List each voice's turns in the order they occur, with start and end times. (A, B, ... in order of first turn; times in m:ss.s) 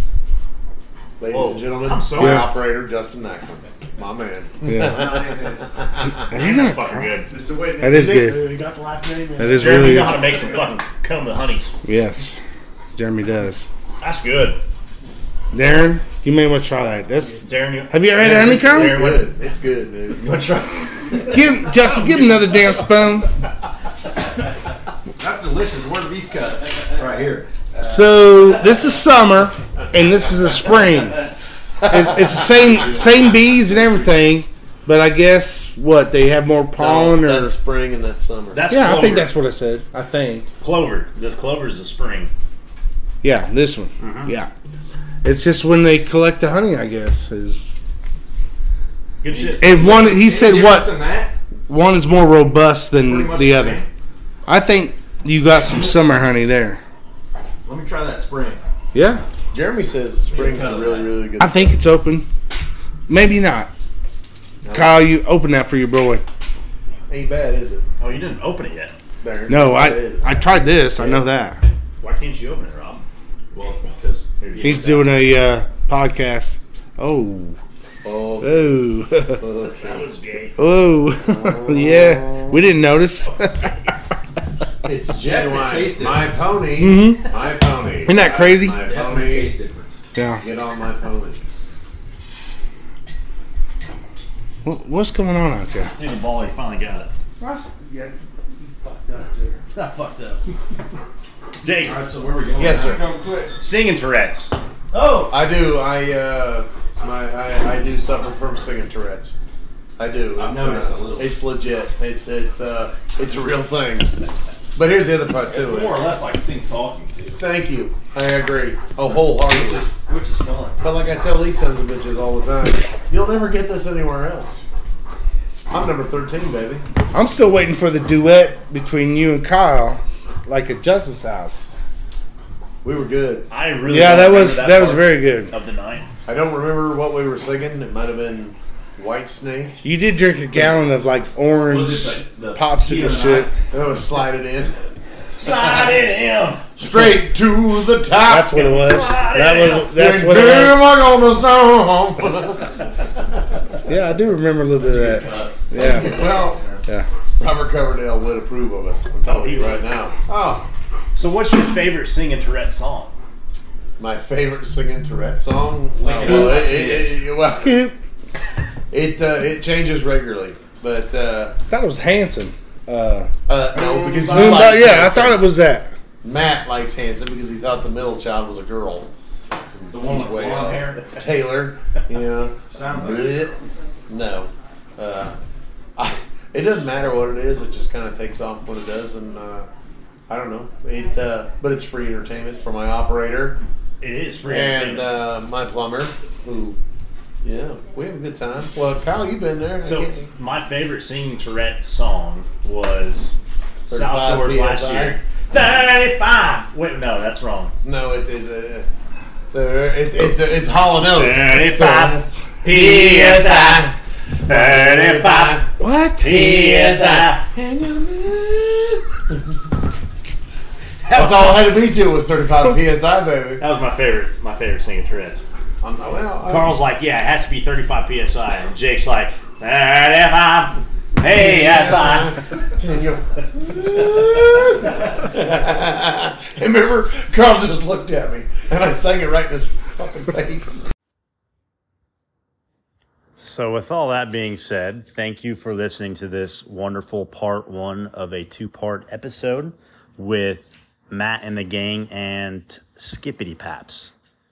0:01.2-0:05.3 A
0:01.3-0:02.5 B
0:02.1-0:02.5 C
0:04.7-0:05.1 C
0:04.7-0:05.8 D
0:06.3-0:07.1 C
0:06.3-0:07.3 B
0:07.3-0:10.7 D
0:07.8-0:08.5 C
0:09.4-0:10.2 C
0:09.6-0:11.8 B
0:11.8-0:12.4 C
0:13.0-0:13.7 C
0:14.0-0:14.6 B
0:15.5-0:19.2 C
0:17.4-0:19.3 B
0:18.2-0:20.4 A
0:20.3-0:20.6 B
0:21.2-0:23.3 C
0:25.2-0:27.5 E
0:27.8-0:31.3 C
0:31.8-0:37.6 C
0:36.8-0:38.7 A
0:38.5-0:39.3 B
0:38.7-0:40.5 C
0:40.6-0:42.3 B
0:43.2-0:44.5 C
0:44.0-0:44.3 B
0:45.2-0:47.7 C
0:49.2-0:49.7 B
0:49.3-0:51.4 E
0:49.6-0:50.9 C
0:51.7-0:53.8 C
0:53.0-0:53.9 E
0:54.4-0:56.8 C
0:57.6-0:58.6 E
0:58.9-0:59.2 C
0:59.5-1:01.8 A
1:00.3-1:01.2 E
1:01.4-1:02.3 C
1:03.1-1:03.7 C
1:04.6-1:05.0 E
1:04.7-1:06.2 C
1:07.1-1:07.8 A
1:08.0-1:08.9 B
1:09.2-1:10.4 A
1:09.5-1:11.6 C
1:11.0-1:11.2 A
1:12.0-1:13.0 B
1:13.5-1:15.3 E
1:14.4-1:14.8 B
1:14.6-1:17.6 C
1:18.0-1:18.7 A
1:18.4-1:19.4 C
1:19.4-1:20.1 A
1:19.8-1:20.6 B
1:20.6-1:23.7 C
1:21.3-1:22.6 A
1:23.2-1:23.8 B
1:24.8-1:29.5 A
1:25.2-1:26.4 E
1:26.8-1:27.3 C
1:28.0-1:28.8 C
1:28.1-1:30.0 E
1:30.1-1:30.4 C
1:30.4-1:31.4 A
1:34.6-1:35.9 C
1:35.8-1:37.1 B
1:37.4-1:39.6 D
1:39.7-1:40.5 B
1:41.6-1:42.0 B
1:41.8-1:43.0 E
1:42.6-1:43.1 A
1:42.8-1:43.6 D
1:43.6-1:44.5 B
1:44.9-1:45.3 D
1:45.3-1:49.3 A
1:50.0-1:54.1 A
1:50.4-1:51.4 E
1:54.7-1:56.0 A
1:55.5-1:57.4 E
1:57.4-1:59.9 A
1:59.4-2:00.8 E
2:00.8-2:04.6 A
2:05.7-2:06.8 A
2:07.1-2:11.6 C
2:12.8-2:13.5 A
2:13.5-2:16.1 B
2:13.8-2:15.5 C
2:16.2-2:19.8 A
2:19.8-2:23.5 C
2:21.6-2:23.6 E
2:23.7-2:24.9 A
2:25.4-2:26.6 B
2:25.4-2:25.7 A
2:26.8-2:28.7 A
2:26.8-2:27.2 C
2:28.2-2:30.9 C
2:28.5-2:29.9 B
2:29.8-2:32.7 A
2:33.8-2:36.2 C
2:34.8-2:36.8 E
2:35.8-2:36.6 A
2:37.4-2:40.6 A
2:39.2-2:39.8 B
2:41.1-2:43.1 B
2:44.0-2:47.8 A
2:46.0-2:47.1 E
2:46.2-2:46.8 C
2:47.5-2:48.0 C
2:48.9-2:51.6 A
2:51.7-2:53.3 C
2:53.5-2:55.4 A
2:53.7-2:55.2 E
2:54.2-2:55.9 C
2:56.2-2:59.1 A
2:59.7-3:03.5 A
2:59.9-3:01.1 E
3:02.6-3:03.4 E
3:04.1-3:05.3 A
3:06.0-3:09.7 A
3:10.3-3:13.6 A
3:14.0-3:15.1 B
3:14.5-3:16.8 A
3:17.4-3:20.3 A
3:19.8-3:23.4 B
3:23.9-3:25.2 A
3:23.9-3:27.7 B
3:27.8-3:28.9 A
3:29.5-3:33.9 A
3:31.0-3:33.9 B
3:34.4-3:37.4 B
3:34.5-3:35.7 A
3:35.8-3:36.4 C
3:36.2-3:39.5 A
3:41.0-3:41.8 B
3:41.1-3:43.6 A
3:43.6-3:45.4 B
3:45.8-3:46.7 A
3:46.4-3:52.4 B
3:51.2-4:00.8 A
4:03.4-4:14.1 B